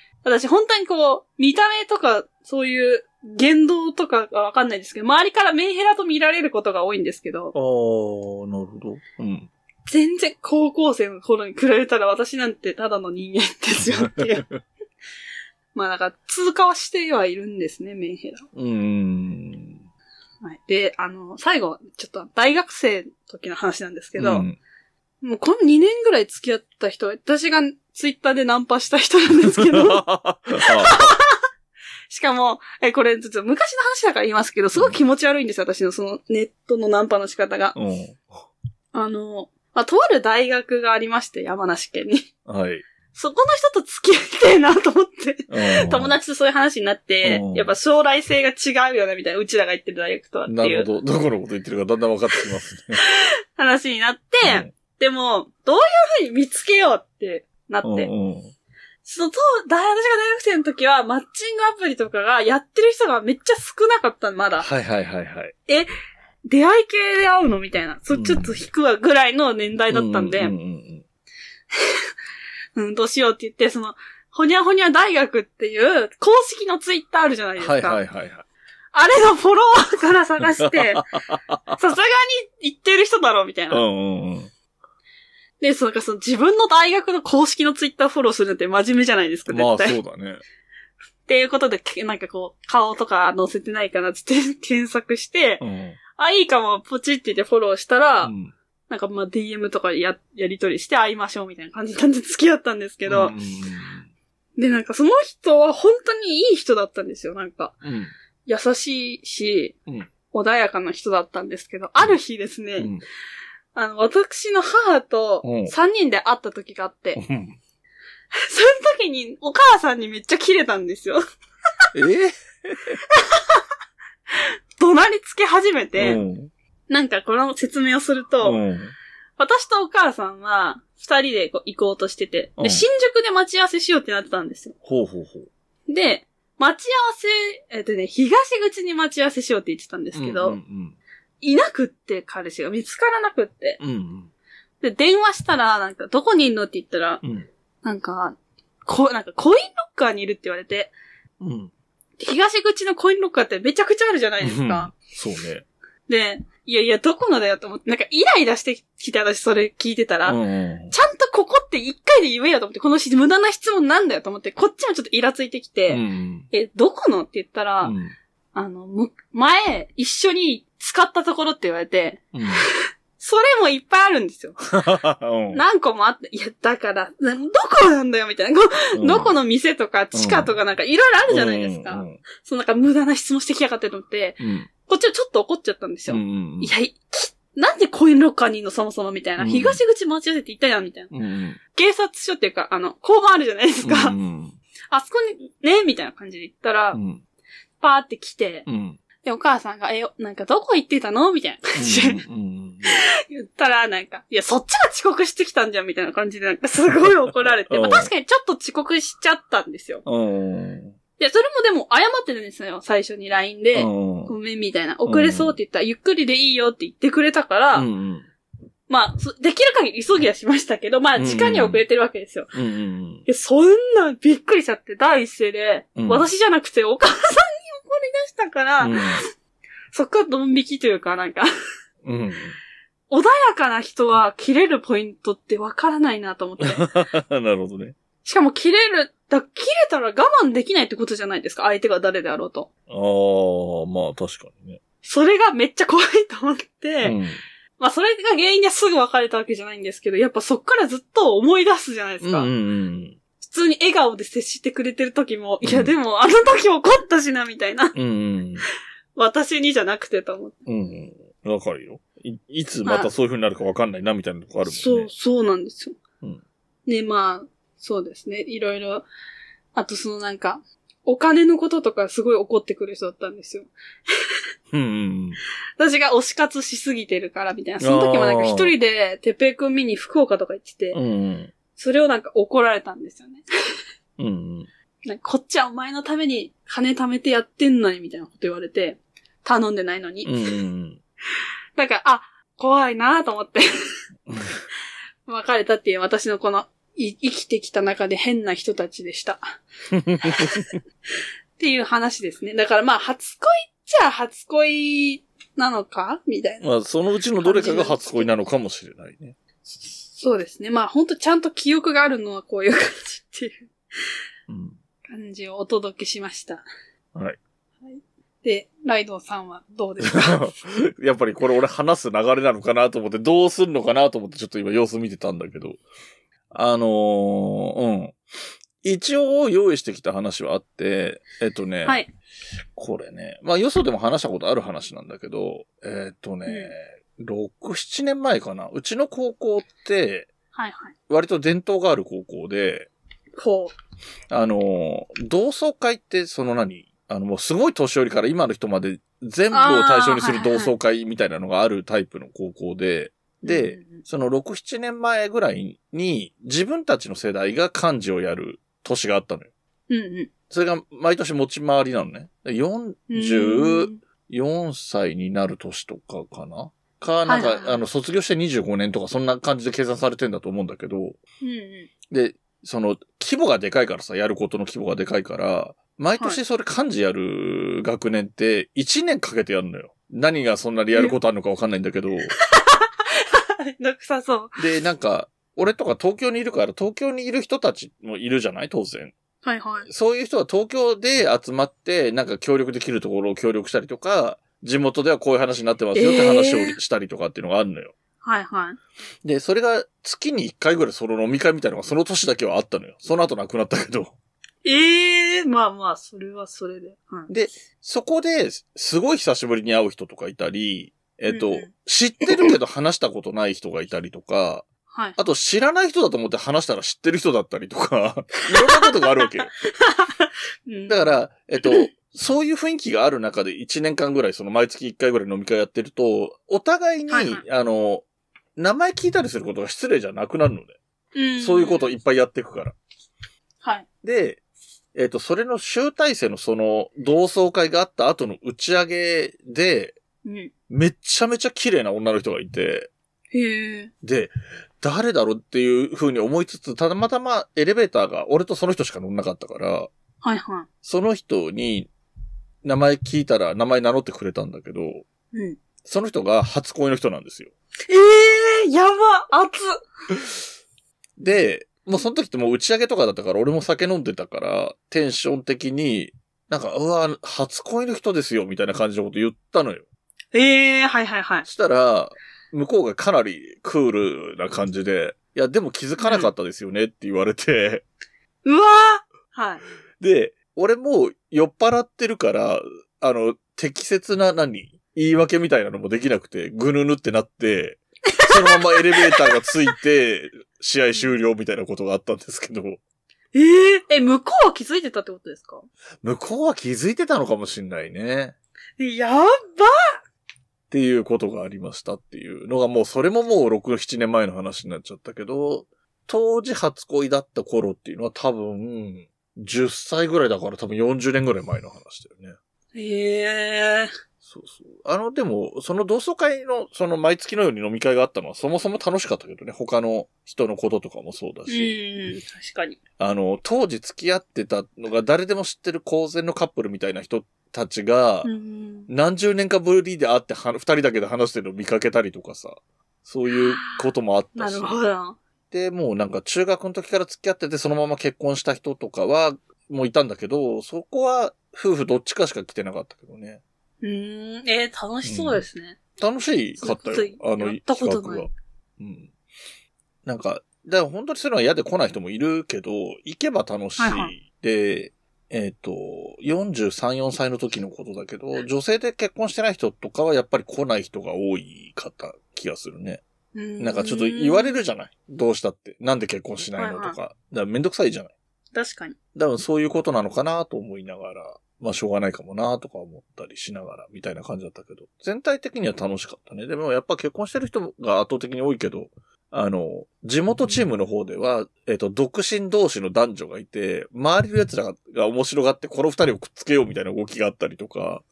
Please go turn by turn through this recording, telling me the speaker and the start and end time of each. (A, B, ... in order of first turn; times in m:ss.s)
0:00.2-0:07.5 A
0:07.5-0:09.5 B
0:09.9-0:14.5 A
0:13.8-0:14.6 B
0:15.7-0:18.4 A
0:18.5-0:19.8 B
0:20.4-0:24.5 A
0:24.2-0:24.6 B
0:25.2-0:31.4 A
0:29.5-0:31.1 B
0:32.1-0:37.8 A
0:37.7-0:38.4 B
0:38.9-0:42.3 A
0:42.4-0:42.8 B
0:43.1-0:50.9 A
0:45.5-0:46.1 B
0:47.2-0:47.7 B
0:50.4-0:53.0 B
0:53.0-0:58.1 A
0:54.4-0:54.7 B
0:57.8-0:58.5 B
0:59.0-1:04.7 A
1:04.6-1:05.5 B
1:06.4-1:10.5 A
1:08.1-1:08.5 B
1:09.9-1:11.0 B
1:12.8-1:18.0 A
1:17.6-1:18.4 B
1:18.9-1:21.1 A
1:20.5-1:21.8 B
1:21.8-1:23.8 A
1:23.7-1:24.5 B
1:25.6-1:30.0 A
1:29.5-1:30.4 B
1:31.3-1:35.6 A
1:35.6-1:36.0 B
1:36.2-1:38.3 A
1:38.2-1:38.5 B
1:38.9-1:43.3 A
1:43.1-1:44.1 B
1:44.6-1:47.8 A
1:47.8-1:48.1 B
1:48.4-1:49.7 A
1:50.3-1:52.9 A
1:53.7-1:57.2 A
1:55.4-1:55.7 B
1:57.2-1:57.6 B
1:58.5-2:01.2 A
2:01.9-2:03.0 B
2:03.1-2:03.6 A
2:04.8-2:06.2 A
2:06.0-2:06.5 B
2:06.9-2:08.6 A
2:08.4-2:08.9 B
2:09.4-2:14.7 A
2:12.6-2:12.8 B
2:14.8-2:15.5 B
2:15.9-2:20.6 A
2:20.1-2:21.0 B
2:21.4-2:23.8 A
2:23.8-2:24.3 B
2:24.8-2:27.2 A
2:27.2-2:27.5 B
2:27.8-2:30.9 A
2:31.4-2:31.7 B
2:32.2-2:34.9 A
2:34.4-2:35.6 B
2:36.1-2:40.4 A
2:40.2-2:40.9 B
2:40.9-2:47.9 A
2:45.9-2:46.5 B
2:47.8-2:48.1 B
2:48.5-2:52.3 A
2:52.3-2:52.6 B
2:53.2-2:54.7 A
2:54.7-2:55.6 B
2:55.5-3:11.1 A
2:59.0-2:59.3 B
3:00.1-3:00.5 B
3:01.3-3:02.2 B
3:04.4-3:04.7 B
3:06.1-3:06.7 B
3:09.4-3:09.8 B
3:11.1-3:11.6 B
3:11.7-3:14.2 A
3:13.8-3:14.6 B
3:14.9-3:17.0 A
3:16.9-3:17.2 B
3:17.8-3:18.6 A
3:18.6-3:19.0 B
3:19.2-3:22.2 A
3:21.8-3:23.0 B
3:22.8-3:30.0 A
3:27.7-3:28.1 B
3:30.0-3:31.0 B
3:31.2-3:37.9 A
3:33.7-3:34.3 B
3:35.0-3:35.6 B
3:37.7-3:38.3 B
3:38.9-3:42.5 A
3:41.2-3:41.8 B
3:42.5-3:43.2 B
3:43.2-3:49.2 A
3:46.0-3:46.3 B
3:48.8-3:49.2 B
3:49.9-3:51.5 A
3:52.0-3:52.6 B
3:53.1-3:56.9 A
3:56.6-3:57.9 B
3:58.2-4:02.7 A
4:02.9-4:04.8 B
4:05.0-4:07.2 A
4:07.0-4:07.4 B
4:07.8-4:12.5 A
4:12.2-4:13.2 B
4:13.4-4:18.0 A
4:15.6-4:15.9 B
4:17.9-4:18.6 B
4:19.2-4:20.6 A
4:20.6-4:25.1 B
4:22.8-4:23.1 A
4:24.6-4:26.0 A
4:26.9-4:29.0 A
4:29.7-4:33.7 A
4:34.7-4:35.4 B
4:35.8-4:41.0 A
4:37.8-4:38.7 B
4:40.9-4:41.5 B
4:41.7-4:43.4 A
4:44.2-4:44.7 B
4:45.0-4:50.3 A
4:50.2-4:51.0 B
4:51.8-4:53.6 A
4:54.3-4:54.6 B
4:55.3-4:59.6 A
4:59.9-5:00.8 B
5:00.2-5:00.7 A
5:01.6-5:06.7 A
5:06.6-5:09.4 B
5:07.4-5:08.3 A
5:09.9-5:13.7 A
5:14.5-5:14.8 B
5:15.1-5:16.6 A
5:17.8-5:20.5 A
5:20.0-5:25.8 B
5:26.5-5:28.2 B
5:28.8-5:32.0 B
5:32.8-5:40.3 B
5:36.4-5:36.7 A
5:40.5-5:40.9 A
5:41.1-5:42.9 B
5:43.4-5:43.7 A
5:44.3-5:59.5 B
5:49.5-5:50.7 A
5:53.4-5:54.0 A
5:59.9-6:00.3 A
6:00.5-6:11.2 B
6:03.1-6:04.0 A
6:07.3-6:07.8 A
6:11.4-6:11.9 A
6:12.1-6:22.3 B
6:23.3-6:24.6 A
6:24.6-6:29.1 B
6:29.4-6:29.9 A
6:29.9-6:37.9 B
6:35.9-6:36.8 A
6:38.2-6:38.8 A
6:39.2-6:44.1 B
6:44.6-6:47.3 A
6:47.3-6:54.6 B
6:51.3-6:51.7 A
6:54.9-6:55.2 A
6:55.2-6:59.5 B
6:58.5-7:01.0 A
7:00.9-7:08.0 B
7:07.1-7:07.4 A
7:08.6-7:10.8 B
7:11.1-7:11.9 A
7:11.4-7:12.7 B
7:14.0-7:14.4 B
7:14.9-7:20.0 B
7:20.2-7:20.5 A
7:20.7-7:22.9 B
7:23.3-7:23.9 A
7:24.0-7:29.9 B
7:30.2-7:30.7 A
7:30.8-7:31.9 B
7:32.6-7:35.0 B
7:35.3-7:35.6 A
7:35.8-7:37.5 B
7:37.9-7:39.8 A
7:41.2-7:49.8 B
7:50.3-7:51.4 A
7:51.4-7:57.8 B
7:56.0-7:56.3 A
7:58.4-7:59.6 A
8:00.0-8:12.8 B
8:08.2-8:09.2 A
8:13.3-8:15.6 A
8:16.0-8:18.3 B
8:18.8-8:19.7 A
8:20.7-8:32.4 B
8:32.7-8:33.9 A
8:34.2-8:41.7 B
8:41.5-8:42.8 A
8:43.0-8:48.3 B
8:48.2-8:48.9 A
8:48.9-8:54.8 B
8:53.3-8:55.2 A
8:55.5-9:03.4 B
9:03.8-9:05.8 A
9:05.0-9:05.4 B
9:06.0-9:09.1 B
9:06.6-9:08.3 A
9:10.0-9:23.0 B
9:13.8-9:14.1 A
9:23.3-9:24.6 A
9:23.6-9:28.1 B
9:26.6-9:27.0 A
9:28.5-9:29.0 A
9:29.1-9:48.0 B